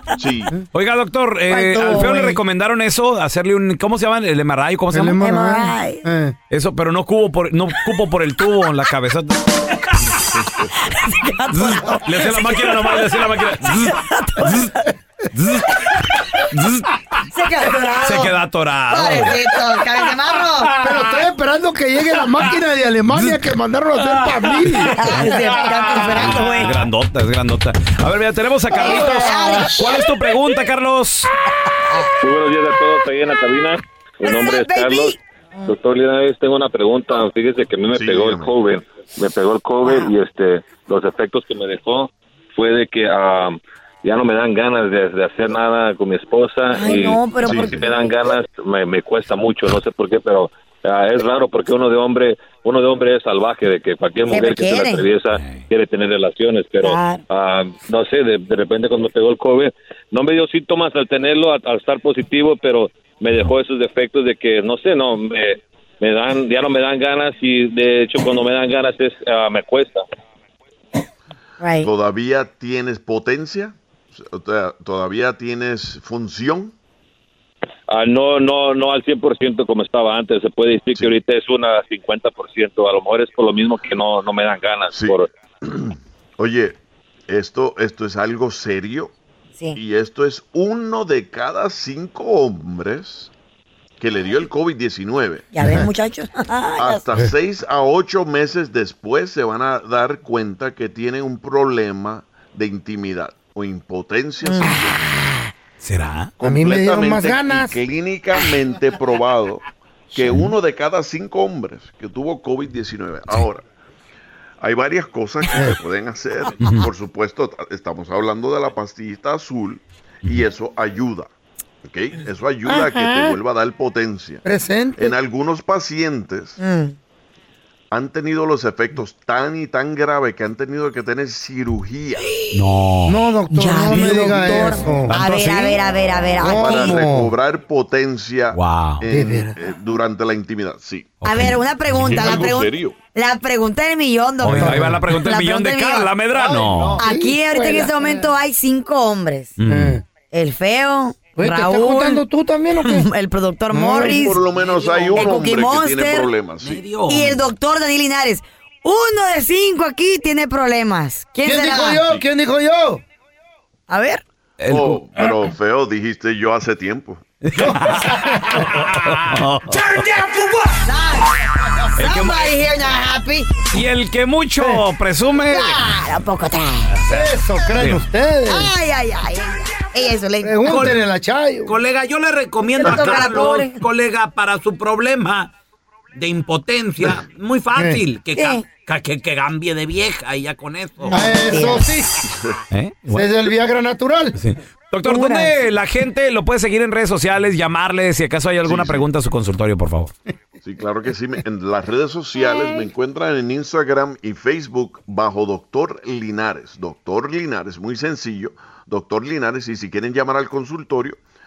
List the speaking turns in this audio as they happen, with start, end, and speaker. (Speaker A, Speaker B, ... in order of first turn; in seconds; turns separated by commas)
Speaker A: 0.2-0.5, Speaker B: 0.7-5.2, Speaker C: 1.5-2.4, Speaker D: 4.9-6.4, Speaker C: 5.2-6.0, Speaker B: 6.5-9.4, Speaker C: 11.0-14.7, Speaker B: 11.5-14.7, Speaker B: 15.3-15.8, Speaker B: 16.5-16.9, Speaker C: 17.3-18.4, Speaker B: 18.0-19.6, Speaker C: 18.9-20.8, Speaker B: 20.6-21.1, Speaker D: 20.8-25.6, Speaker B: 23.1-23.5, Speaker B: 24.0-31.3, Speaker C: 24.9-26.9, Speaker C: 28.7-30.1, Speaker E: 32.2-70.0, Speaker C: 34.2-35.7, Speaker A: 37.9-38.5, Speaker C: 39.8-40.1, Speaker C: 46.7-48.2, Speaker A: 47.4-47.8, Speaker C: 54.3-55.1, Speaker B: 55.3-55.6, Speaker C: 56.8-57.2, Speaker C: 71.6-71.9, Speaker A: 71.8-76.8, Speaker E: 77.9-85.3, Speaker A: 84.9-89.1, Speaker A: 89.8-93.3, Speaker A: 94.0-95.5, Speaker C: 95.5-97.0, Speaker D: 95.6-95.9, Speaker A: 96.8-105.0, Speaker C: 104.4-104.8, Speaker B: 105.8-106.3, Speaker D: 106.4-107.8, Speaker A: 106.4-113.6, Speaker A: 114.6-121.3, Speaker D: 115.5-115.8, Speaker B: 116.6-116.9, Speaker A: 121.8-124.4, Speaker D: 122.7-123.3, Speaker D: 124.4-125.2, Speaker A: 125.0-126.6, Speaker C: 126.6-126.9, Speaker A: 127.9-132.3, Speaker B: 132.5-133.2, Speaker D: 133.1-135.2, Speaker C: 133.5-137.0, Speaker B: 133.9-135.8, Speaker D: 136.4-137.3, Speaker A: 136.4-143.0, Speaker B: 138.5-139.1, Speaker D: 139.1-139.6, Speaker C: 141.2-146.1, Speaker B: 141.3-141.6, Speaker B: 144.4-147.1, Speaker D: 144.4-145.0, Speaker D: 146.3-148.2, Speaker C: 147.0-149.6, Speaker B: 149.6-150.0, Speaker D: 149.7-150.0, Speaker C: 150.3-152.2, Speaker D: 151.4-153.1, Speaker C: 152.8-156.3, Speaker D: 153.7-154.2, Speaker A: 154.1-156.9, Speaker B: 156.6-157.4, Speaker C: 157.1-162.0, Speaker D: 161.4-163.0, Speaker C: 163.9-164.2, Speaker B: 164.6-165.3, Speaker A: 164.7-167.2, Speaker B: 167.4-170.0, Speaker D: 167.6-168.7, Speaker C: 169.8-173.7, Speaker B: 172.0-172.6, Speaker B: 173.7-175.9, Speaker C: 175.5-177.0, Speaker B: 176.9-178.0, Speaker D: 177.1-178.7, Speaker C: 178.5-180.7, Speaker D: 180.4-181.8, Speaker B: 180.7-181.0, Speaker B: 181.7-185.5, Speaker C: 182.6-183.8, Speaker B: 186.2-191.2, Speaker D: 187.8-188.0, Speaker C: 188.3-188.7, Speaker D: 191.1-192.1, Speaker C: 191.5-191.9, Speaker B: 192.7-193.2, Speaker D: 193.1-194.4, Speaker B: 194.4-200.1, Speaker C: 195.1-195.5, Speaker A: 198.7-199.1, Speaker A: 200.6-211.2, Speaker C: 202.4-202.9